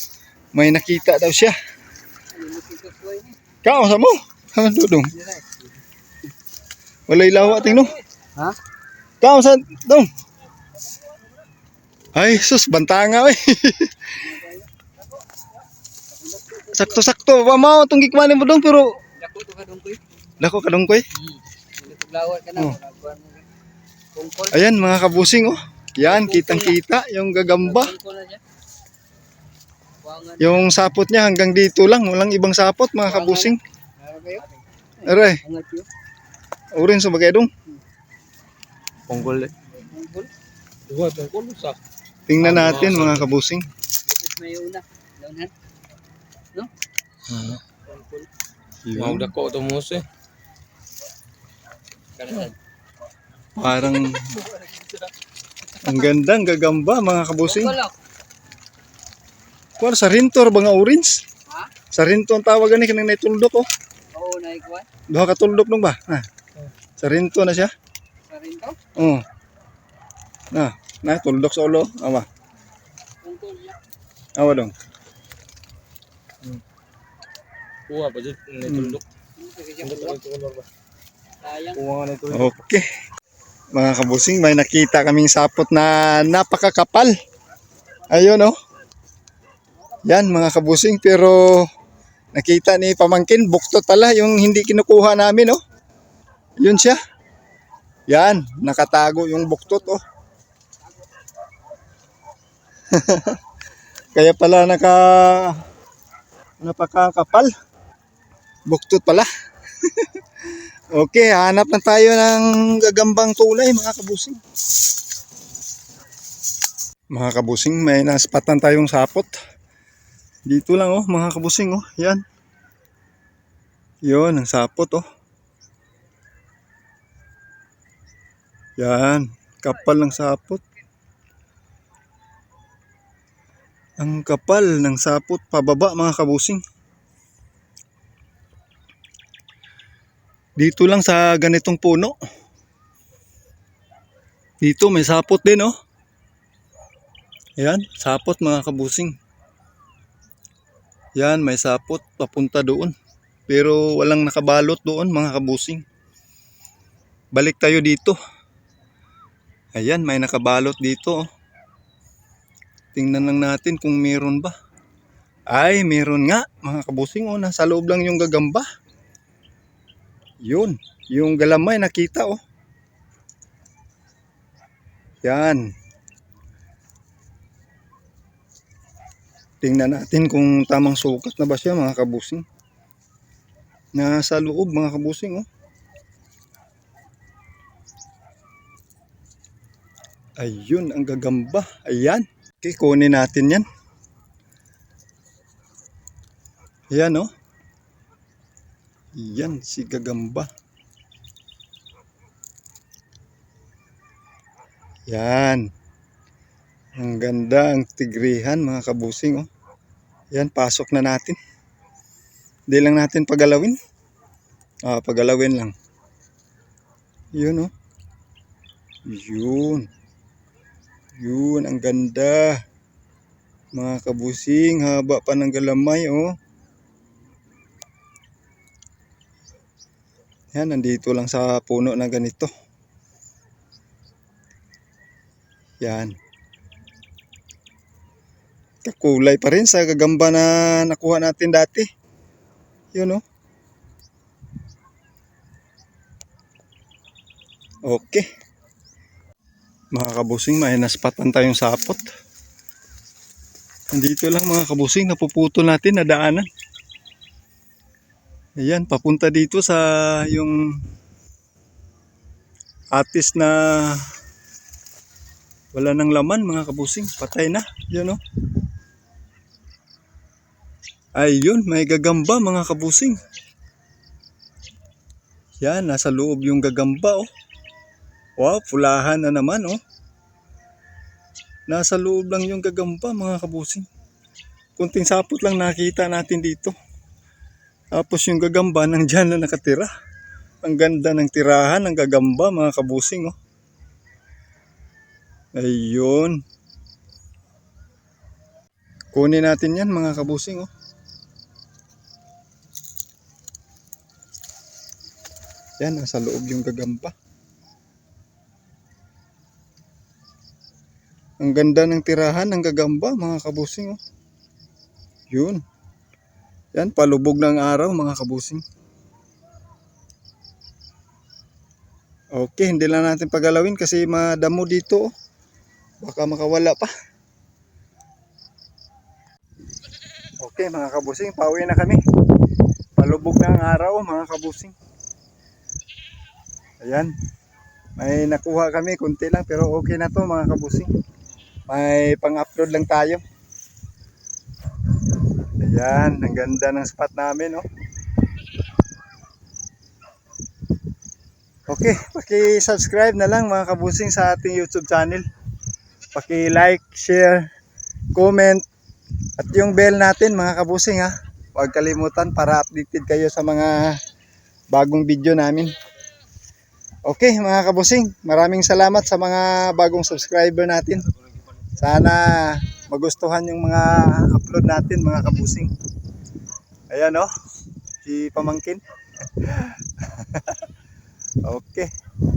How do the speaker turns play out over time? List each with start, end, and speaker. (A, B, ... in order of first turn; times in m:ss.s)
0:00.5-0:01.6 A
0:02.3-0:03.4 B
0:03.6-0:05.1 A
0:07.1-0:08.0 A
0:09.2-0:10.1 A
0:12.1-0:14.3 A
0:14.2-0:14.7 B
0:16.1-0:17.0 B
0:16.7-0:18.9 A
0:19.0-0:20.0 B
0:20.4-0:21.0 A
0:21.1-0:23.4 B
0:24.1-0:24.5 B
0:24.5-0:27.9 A
0:26.0-0:26.8 B
0:27.5-0:28.4 B
0:30.0-0:30.7 B
0:30.4-0:33.6 A
0:33.0-0:35.9 B
0:35.0-0:35.4 A
0:36.7-0:37.5 A
0:39.1-0:39.5 C
0:39.9-0:40.3 B
0:40.9-0:41.8 C
0:42.3-0:43.7 A
0:42.4-0:43.3 C
0:44.1-0:45.5 B
0:47.3-0:48.2 C
0:48.8-0:49.3 A
0:49.0-0:50.0 C
0:52.2-0:52.5 C
0:53.6-0:54.5 A
0:55.8-0:57.8 A
0:57.4-0:57.9 B
0:59.8-1:01.2 A
1:01.9-1:03.7 A
1:04.1-1:04.9 B
1:05.1-1:06.2 A
1:07.0-1:07.7 A
1:08.3-1:08.8 B
1:08.9-1:09.2 A
1:10.5-1:12.2 A
1:13.2-1:13.8 B
1:14.4-1:14.7 A
1:17.9-1:19.0 C
1:18.7-1:19.0 A
1:19.4-1:20.2 B
1:19.8-1:20.7 C
1:21.4-1:21.8 B
1:21.7-1:22.6 C
1:22.3-1:22.8 A
1:23.7-1:27.1 A
1:28.1-1:28.5 A
1:30.0-1:31.6 A
1:32.3-1:35.6 A
1:36.6-1:37.0 A
1:38.1-1:40.0 A
1:42.9-1:43.4 A
1:44.1-1:45.6 A
1:46.6-1:47.5 A
1:48.7-1:49.3 A
1:49.8-1:50.2 A
1:50.9-1:54.4 A
1:57.1-1:59.3 A
2:00.5-2:02.2 A
2:04.0-2:05.0 A
2:08.8-2:10.6 A
2:14.0-2:16.6 A
2:20.6-2:22.2 A
2:24.6-2:25.7 A
2:27.6-2:29.1 A
2:31.2-2:32.9 A
2:33.5-2:35.8 A
2:37.3-2:38.2 A
2:39.8-2:41.2 A
2:42.9-2:44.5 A
2:45.5-2:48.6 A
2:50.4-2:52.4 A
2:55.2-2:55.7 A
2:59.6-3:02.4 A
3:03.9-3:05.5 A
3:10.4-3:13.6 A
3:16.9-3:17.3 A
3:19.1-3:20.5 A
3:25.1-3:25.6 A
3:27.0-3:29.5 A
3:30.3-3:31.4 A
3:32.7-3:33.8 A
3:34.8-3:35.7 A
3:37.3-3:37.7 A
3:39.1-3:39.9 A
3:41.2-3:42.6 A
3:43.7-3:46.3 A
3:50.5-3:52.5 A
3:55.8-3:56.1 A
3:58.8-4:01.9 A
4:02.9-4:03.2 A
4:07.9-4:08.2 A
4:09.9-4:12.1 A
4:13.9-4:16.5 A
4:18.6-4:20.6 A
4:22.9-4:24.0 A
4:25.7-4:28.2 A
4:31.2-4:33.2 A
4:35.6-4:37.3 A
4:38.4-4:39.8 A
4:41.7-4:43.8 A
4:44.8-4:46.7 A
4:47.9-4:49.9 A
4:50.6-4:53.3 A
4:55.6-4:56.4 A
4:59.1-5:00.7 A
5:05.8-5:07.1 A
5:11.4-5:14.0 A
5:15.3-5:15.6 A
5:16.7-5:18.6 A
5:22.3-5:25.1 A
5:26.0-5:26.9 A
5:30.4-5:32.0 A
5:33.0-5:34.7 A
5:36.8-5:37.1 A
5:38.0-5:40.9 A
5:41.7-5:43.2 A
5:45.6-5:47.6 A
5:51.7-5:55.2 A
5:56.1-5:57.4 A
5:58.1-5:58.6 A
5:59.4-6:04.0 A
6:04.7-6:05.8 A
6:07.0-6:11.0 A
6:11.8-6:15.7 A
6:16.9-6:17.3 A
6:18.0-6:20.6 A
6:21.4-6:21.9 A